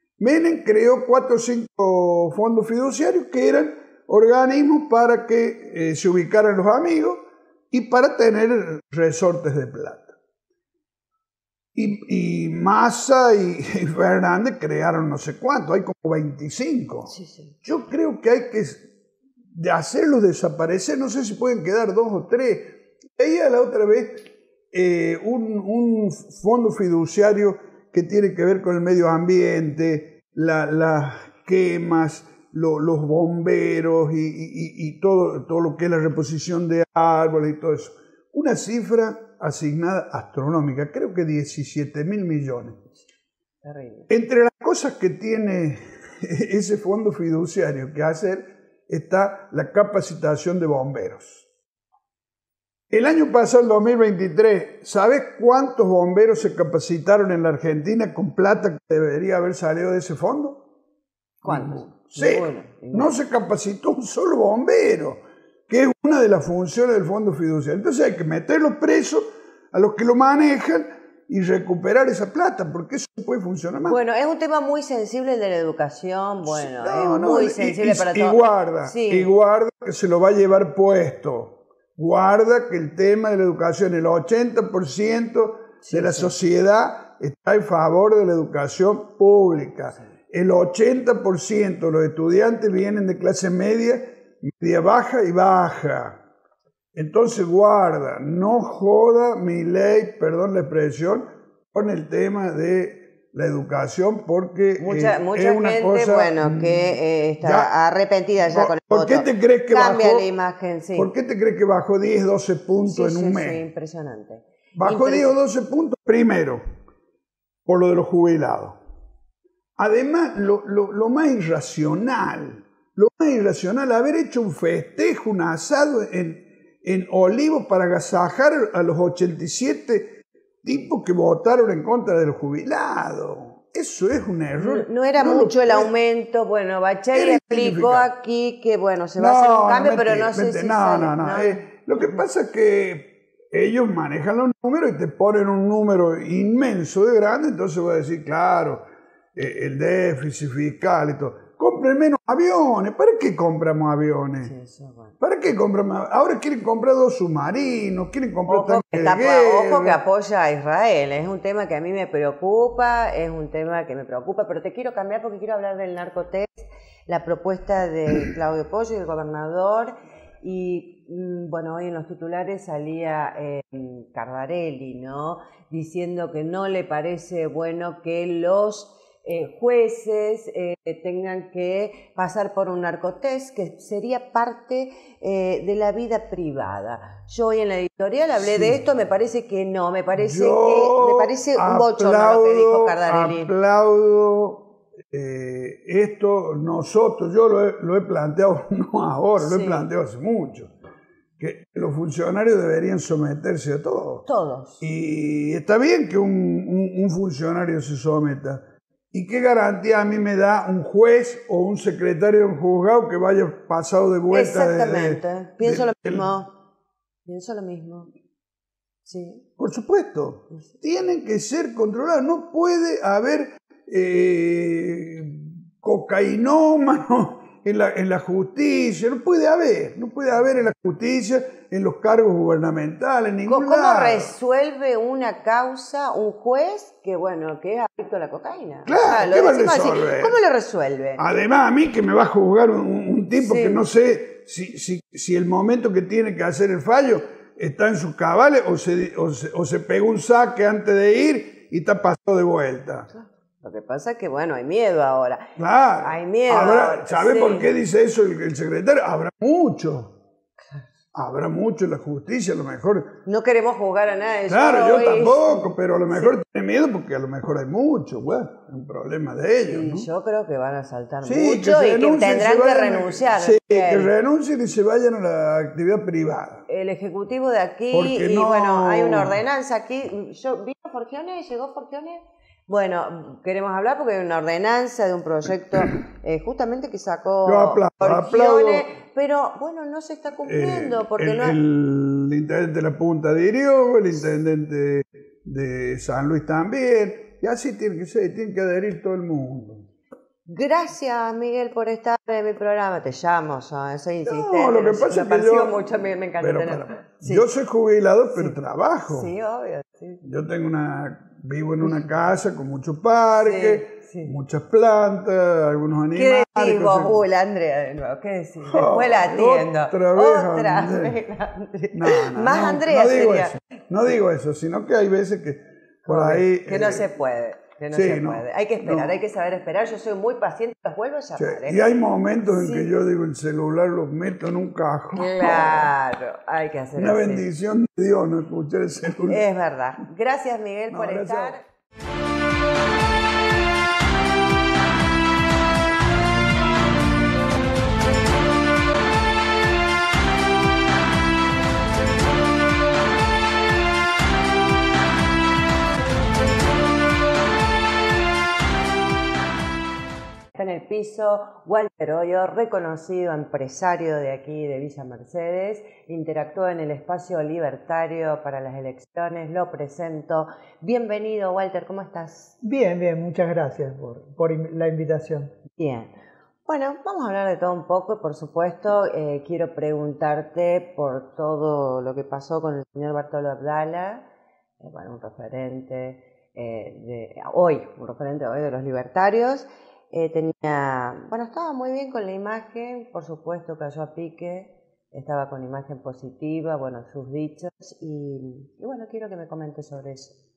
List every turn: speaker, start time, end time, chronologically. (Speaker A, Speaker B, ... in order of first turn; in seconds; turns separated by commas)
Speaker A: 0.2-10.2, Speaker A: 11.8-18.9, Speaker B: 17.1-17.5, Speaker A: 19.6-42.8, Speaker B: 43.6-44.1, Speaker A: 44.1-51.5, Speaker A: 52.9-60.6, Speaker B: 61.4-63.1, Speaker A: 61.5-74.0, Speaker B: 73.8-79.3, Speaker A: 76.4-96.2, Speaker B: 85.8-86.3, Speaker A: 97.0-107.7, Speaker B: 104.8-111.1, Speaker A: 108.4-110.3, Speaker A: 111.0-113.6, Speaker B: 112.8-115.3, Speaker A: 114.8-116.7, Speaker A: 117.7-118.8, Speaker A: 119.8-135.9, Speaker B: 134.6-142.2, Speaker A: 137.1-138.1, Speaker A: 139.2-148.8, Speaker A: 149.3-154.5, Speaker B: 154.4-155.2, Speaker A: 155.2-160.0, Speaker B: 158.5-193.5, Speaker A: 188.4-188.8, Speaker A: 190.2-200.7, Speaker B: 199.4-199.9, Speaker A: 201.4-204.2, Speaker B: 204.2-204.8, Speaker A: 204.8-216.3, Speaker B: 214.3-216.5, Speaker B: 217.3-218.1, Speaker B: 219.1-219.4, Speaker A: 219.6-234.3, Speaker B: 233.5-241.2, Speaker A: 238.9-240.4, Speaker A: 241.2-253.1, Speaker B: 243.4-243.8, Speaker B: 253.1-255.5, Speaker A: 255.6-260.1, Speaker B: 256.0-257.7, Speaker A: 261.1-263.1, Speaker B: 263.3-266.4, Speaker A: 264.5-270.1, Speaker B: 269.6-274.1, Speaker A: 271.2-276.6, Speaker B: 276.7-291.6, Speaker A: 277.9-279.4, Speaker A: 287.5-288.9, Speaker A: 290.4-299.9, Speaker B: 300.5-307.5, Speaker A: 304.2-309.3, Speaker B: 309.1-310.2, Speaker A: 310.2-317.2, Speaker B: 313.4-314.3, Speaker B: 316.1-323.6, Speaker A: 318.7-321.2, Speaker A: 321.9-327.1, Speaker B: 326.1-331.9, Speaker A: 327.9-329.2, Speaker A: 331.4-335.9, Speaker B: 332.5-332.9, Speaker B: 335.2-337.5, Speaker A: 336.9-339.4, Speaker B: 339.3-341.6, Speaker A: 340.9-341.6, Speaker B: 360.5-372.5, Speaker C: 372.6-375.5, Speaker B: 375.7-376.1, Speaker B: 376.7-384.2, Speaker B: 384.8-400.4